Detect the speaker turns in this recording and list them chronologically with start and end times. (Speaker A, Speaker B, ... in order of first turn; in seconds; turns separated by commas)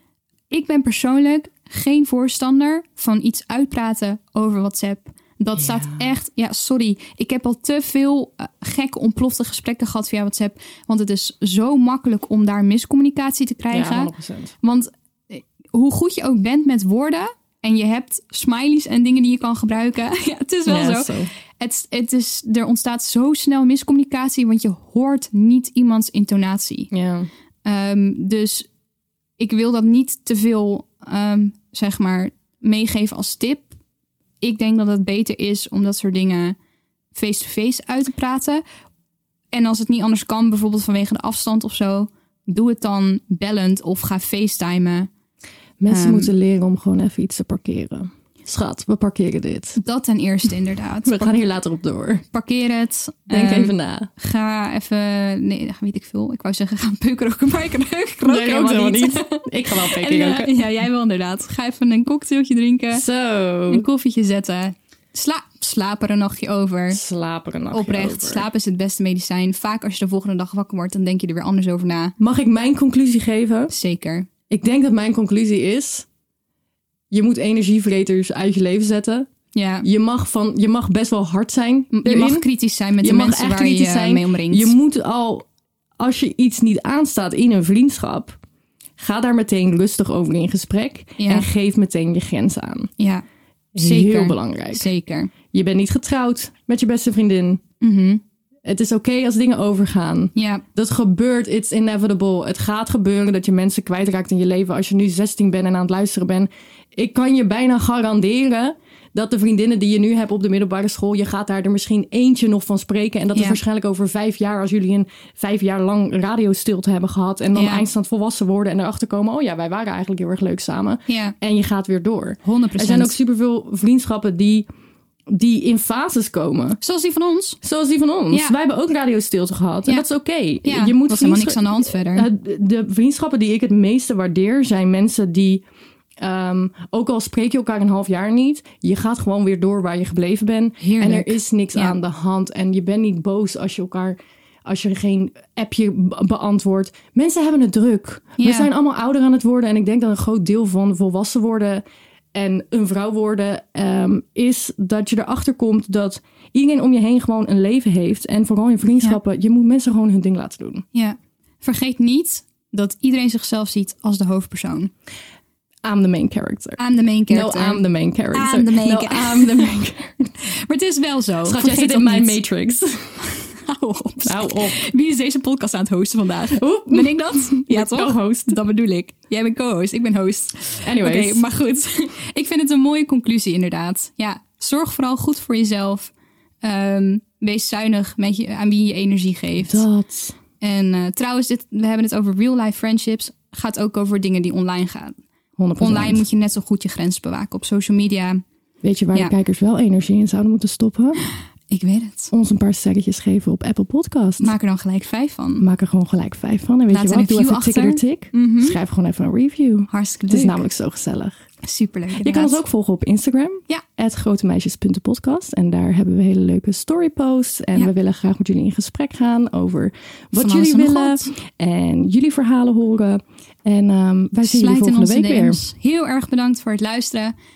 Speaker A: 0.5-26.9, Speaker B: 5.6-6.1, Speaker B: 13.7-14.5, Speaker B: 20.7-21.3, Speaker B: 26.9-27.3, Speaker A: 27.6-28.7, Speaker A: 29.4-33.7, Speaker A: 34.4-36.6, Speaker A: 37.1-38.6, Speaker A: 39.5-45.1, Speaker B: 45.8-49.8, Speaker A: 45.9-46.3, Speaker A: 49.8-51.4, Speaker B: 51.0-52.2, Speaker A: 52.3-63.0, Speaker B: 53.3-54.1, Speaker B: 58.2-60.6, Speaker B: 62.9-63.9, Speaker A: 63.7-67.0, Speaker B: 66.9-68.5, Speaker A: 67.7-72.2, Speaker B: 72.2-73.7, Speaker A: 73.7-74.3, Speaker B: 74.5-76.1, Speaker B: 77.1-79.3, Speaker A: 79.5-79.9, Speaker B: 79.8-82.5, Speaker A: 81.9-84.8, Speaker B: 83.0-85.5, Speaker B: 86.0-88.4, Speaker B: 89.0-92.9, Speaker A: 91.2-91.5, Speaker A: 93.0-93.2, Speaker B: 93.8-94.9, Speaker A: 93.8-95.3, Speaker B: 95.5-97.6, Speaker A: 97.8-98.2, Speaker B: 98.7-124.7, Speaker A: 100.3-100.6, Speaker A: 117.5-117.8, Speaker A: 121.1-121.3, Speaker A: 122.4-123.2, Speaker B: 125.3-126.8, Speaker A: 126.8-127.6, Speaker B: 127.6-135.6, Speaker A: 130.6-132.3, Speaker B: 136.2-151.8, Speaker A: 140.8-141.9, Speaker A: 148.4-148.7, Speaker B: 152.3-160.8, Speaker A: 160.9-164.9, Speaker B: 165.8-170.3, Speaker A: 166.8-169.9, Speaker A: 170.5-172.4, Speaker B: 171.4-173.2, Speaker A: 173.5-186.1, Speaker B: 174.2-174.8, Speaker B: 176.6-178.6, Speaker B: 180.8-181.4, Speaker A: 186.6-189.8, Speaker B: 189.6-190.4, Speaker A: 190.6-195.2, Speaker B: 195.6-196.2, Speaker A: 195.8-198.4, Speaker B: 198.8-201.2, Speaker A: 201.7-202.3, Speaker B: 202.3-204.5, Speaker A: 204.4-205.7, Speaker B: 205.6-211.4, Speaker A: 206.9-208.8, Speaker A: 209.9-210.7, Speaker A: 211.6-212.6, Speaker B: 212.2-225.6, Speaker A: 220.3-221.3, Speaker A: 224.4-227.3